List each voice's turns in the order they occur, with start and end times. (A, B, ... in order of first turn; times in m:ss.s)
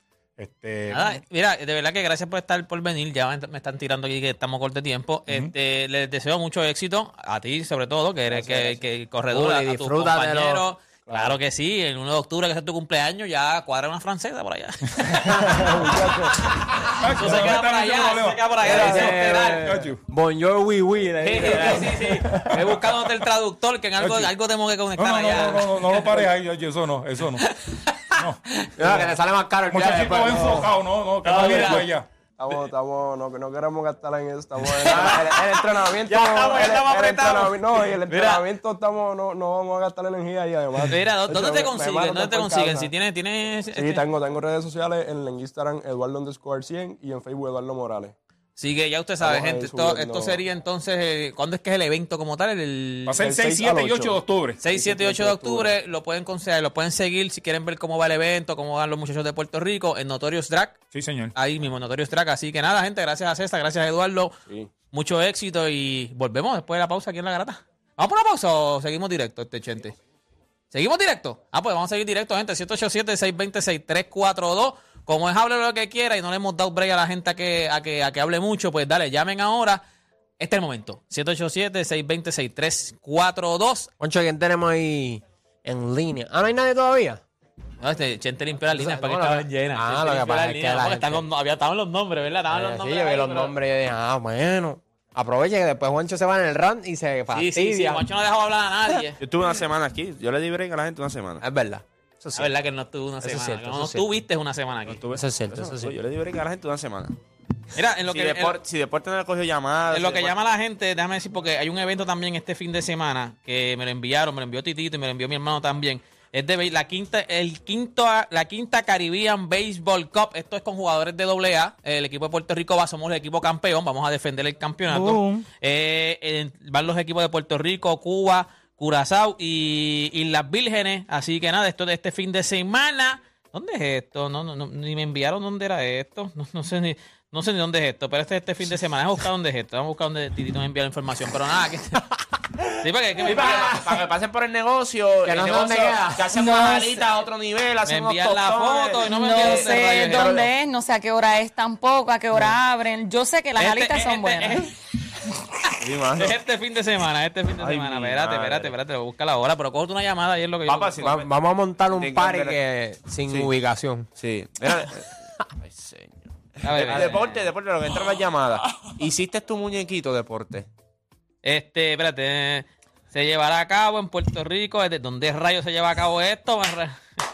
0:00.4-0:01.2 A
0:00.9-0:19.8 B
0:08.3-0:08.8 C
0:09.3-0:10.6 D
0:15.2-0:16.4 C
0:16.8-0:20.0 A
0:18.6-0:22.5 D
0:21.2-0:26.2 B
0:24.0-0:24.3 A
0:25.0-0:27.5 A
0:27.4-0:29.0 B
0:28.1-0:28.4 A
0:28.8-0:30.6 D
0:29.7-0:32.1 A
0:30.3-0:30.6 C
0:31.2-0:31.9 B
0:32.4-0:42.9 C
0:34.8-0:38.4 B
0:40.8-0:44.0 B
0:43.7-0:48.1 C
0:48.6-0:53.2 B
0:49.2-0:50.4 C
0:53.0-0:54.6 A
0:53.2-0:55.7 C
0:54.6-1:00.8 B
1:00.9-1:01.3 A
1:01.3-1:04.3 B
1:04.9-1:10.0 B
1:10.7-1:19.8 B
1:20.4-1:23.9 B
1:24.0-1:27.2 D
1:27.8-1:33.5 B
1:28.7-1:31.2 D
1:32.5-1:38.0 D
1:37.3-1:39.2 B
1:39.2-1:41.4 E
1:41.4-1:42.5 D
1:42.3-1:45.0 B
1:43.2-1:44.1 D
1:44.8-1:47.2 E
1:45.1-1:45.9 D
1:47.7-1:48.6 B
1:48.0-1:50.3 E
1:49.9-2:22.0 B
2:05.0-2:05.4 F
2:22.8-2:23.8 B
2:23.2-2:30.5 E
2:23.5-2:23.8 D
2:25.2-2:27.0 D
2:27.8-2:30.4 B
2:29.1-2:34.7 F
2:33.6-2:34.7 B
2:35.8-2:36.4 E
2:36.0-2:41.2 B
2:37.5-2:38.7 E
2:40.6-2:41.3 E
2:41.0-2:44.1 D
2:41.8-2:42.6 E
2:44.2-2:50.7 E
2:46.6-2:47.4 B
2:46.8-2:47.4 D
2:51.4-2:57.0 B